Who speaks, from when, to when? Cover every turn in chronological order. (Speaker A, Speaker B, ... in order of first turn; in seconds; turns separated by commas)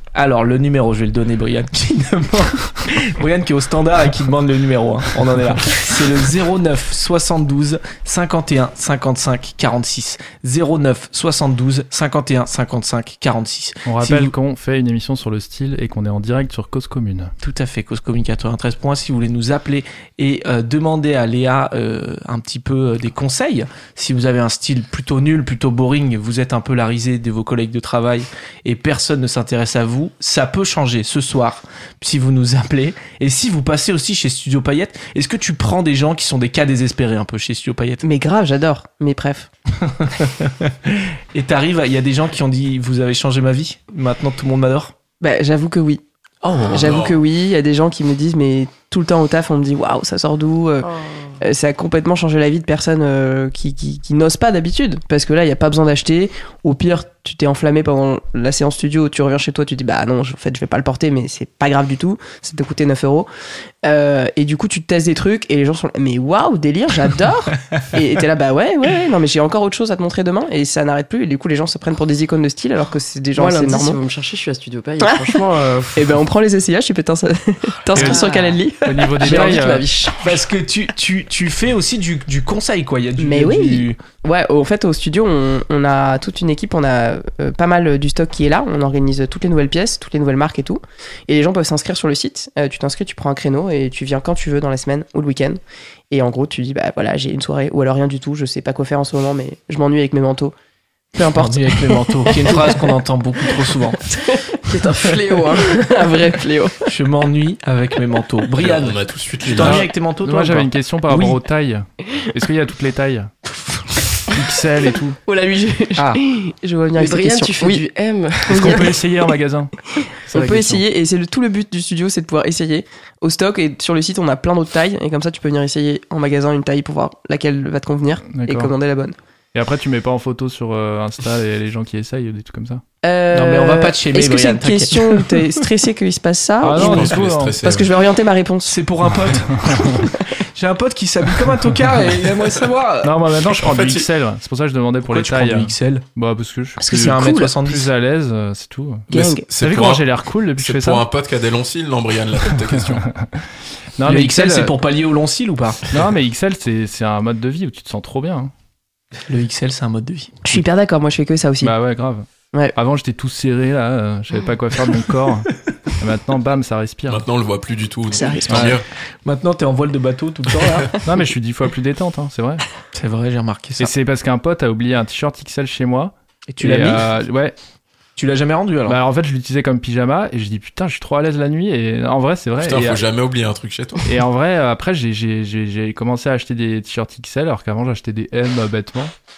Speaker A: 0.1-14.3, Speaker B: 13.8-17.3, Speaker A: 17.4-38.0, Speaker C: 38.0-39.5, Speaker A: 39.8-44.9, Speaker C: 45.2-46.0, Speaker A: 46.4-47.0, Speaker D: 46.7-47.2, Speaker C: 46.7-63.3, Speaker E: 50.8-51.4, Speaker C: 63.8-74.0, Speaker E: 73.4-76.2, Speaker C: 75.0-75.4, Speaker C: 75.9-79.5, Speaker B: 77.9-78.3, Speaker A: 77.9-78.6, Speaker B: 78.8-79.9, Speaker E: 79.2-80.4, Speaker A: 80.2-84.0, Speaker C: 83.2-100.5, Speaker C: 101.1-103.0, Speaker A: 101.3-104.0, Speaker C: 103.5-104.9, Speaker E: 104.7-106.1, Speaker C: 105.7-106.8, Speaker A: 106.8-111.4, Speaker D: 108.6-109.9, Speaker B: 109.6-113.3, Speaker B: 114.3-115.2, Speaker C: 115.2-117.8, Speaker A: 116.0-116.2, Speaker E: 117.0-118.9, Speaker C: 118.5-119.0, Speaker B: 118.5-119.7, Speaker B: 120.3-120.8, Speaker C: 120.3-129.2, Speaker B: 128.3-128.7, Speaker B: 129.5-132.8, Speaker C: 133.0-138.8, Speaker A: 133.3-135.6, Speaker B: 136.6-137.5, Speaker D: 136.7-137.9, Speaker A: 138.7-143.2, Speaker B: 139.5-140.0, Speaker B: 143.0-149.1, Speaker D: 143.4-144.1, Speaker A: 145.1-146.1, Speaker A: 146.8-147.9, Speaker C: 146.9-147.5, Speaker C: 149.1-149.4, Speaker D: 149.1-150.1, Speaker B: 149.6-151.1, Speaker D: 150.6-153.0, Speaker B: 152.7-153.4, Speaker B: 154.0-154.7, Speaker A: 154.0-155.9, Speaker B: 155.9-158.5, Speaker A: 159.3-160.4, Speaker C: 160.4-161.7, Speaker B: 161.6-167.2, Speaker D: 167.1-168.8, Speaker C: 168.1-168.7, Speaker A: 168.5-170.9, Speaker B: 171.0-172.6, Speaker A: 172.9-173.9, Speaker B: 173.8-177.5, Speaker A: 176.5-177.0, Speaker A: 178.2-179.0, Speaker B: 178.8-183.0, Speaker D: 182.6-184.2, Speaker B: 184.0-189.1